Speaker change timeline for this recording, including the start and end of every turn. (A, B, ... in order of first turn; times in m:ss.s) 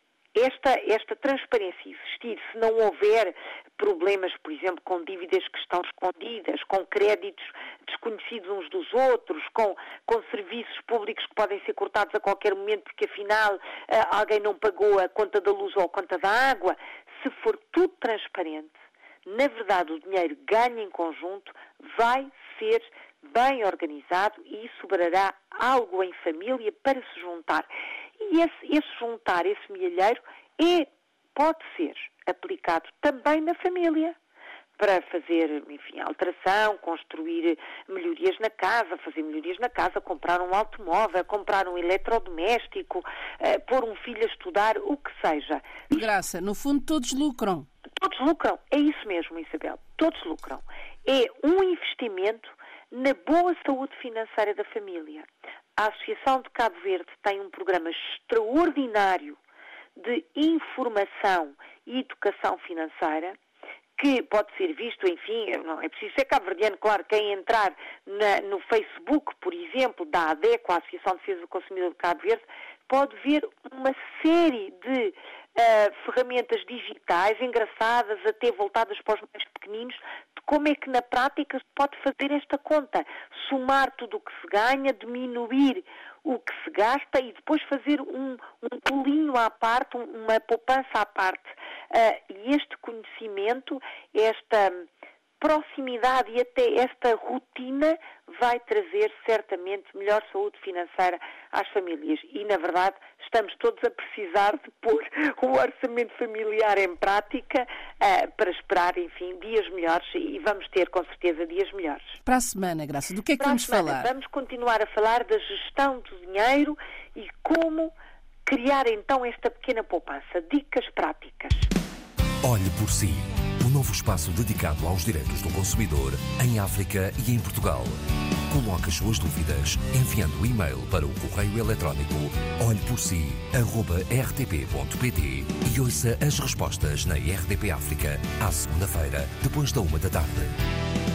0:00.3-0:34.2 A
0:34.8-0:46.0 A
0:45.9-0:47.7 B
0:48.0-0:59.4 A
1:00.0-1:03.4 A
1:04.0-1:34.9 A
1:35.4-1:52.2 A
1:52.2-1:54.1 B
1:53.4-1:57.9 A
1:58.4-2:01.7 A
2:02.4-2:08.0 C
2:08.5-2:20.5 C